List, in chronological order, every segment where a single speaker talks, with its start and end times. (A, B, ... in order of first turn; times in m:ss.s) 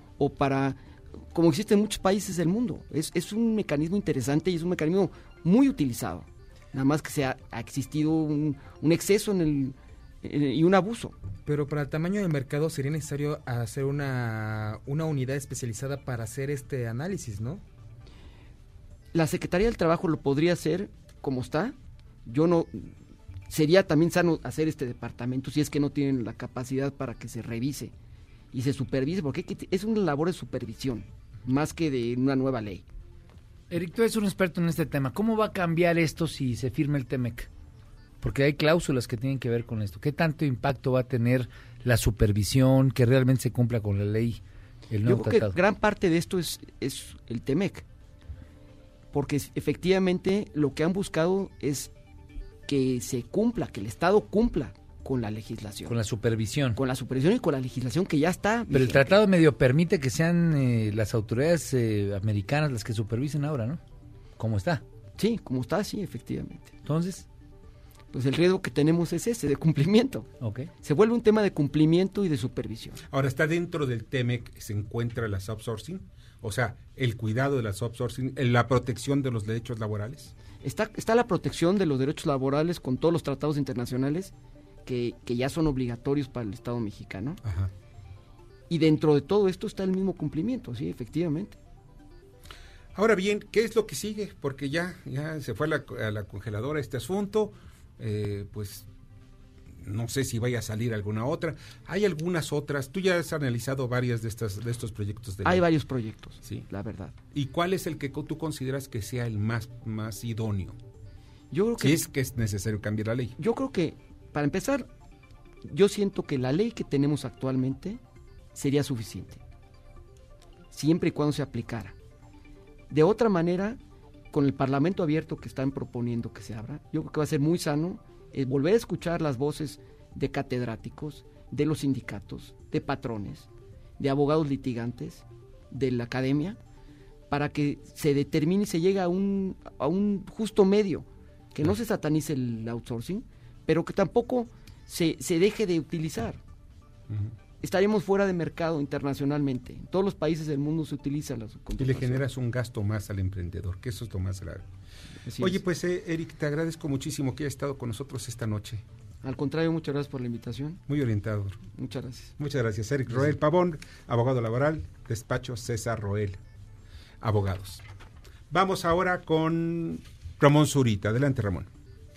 0:00.2-0:00.8 A
0:01.3-0:11.2 A
0:11.5-0:17.6 B
0:19.1-0:23.0 A
0:23.5-0:27.9 A
0:28.5-0:32.8 A
0:33.7-0:37.5 C
0:38.2-0:45.6 C
0:45.0-0:47.8 A
0:49.1-0:51.9 A
0:52.7-0:56.0 A
0:55.9-0:56.8 C
0:56.8-0:59.2 A
0:58.7-1:03.8 C
1:04.4-1:04.8 C
1:05.2-1:06.7 A
1:06.9-1:07.2 C
1:08.1-1:10.3 A
1:10.4-1:10.7 C
1:10.8-1:13.0 A
1:13.1-1:20.3 D
1:20.6-1:24.3 A
1:24.9-1:27.4 A
1:27.4-1:27.7 D
1:28.7-1:31.6 A
1:33.0-1:38.9 D
1:39.8-1:45.7 D
1:45.4-1:47.2 A
1:47.3-1:50.8 D
1:51.5-1:52.0 A
1:51.8-1:53.4 D
1:53.4-1:54.9 A
1:55.7-1:58.0 A
1:58.6-1:59.4 A
2:00.7-2:02.0 A
2:02.9-2:03.8 A
2:04.3-2:13.5 A
2:14.0-2:16.6 A
2:17.3-2:26.4 A
2:27.1-2:27.3 D
2:27.6-2:32.2 A
2:31.8-2:34.7 D
2:35.3-2:35.6 A
2:35.4-2:38.8 D
2:39.2-2:40.8 A
2:40.9-2:41.6 D
2:41.7-2:42.4 A
2:42.4-2:46.4 D
2:47.2-2:47.8 D
2:48.5-2:51.7 D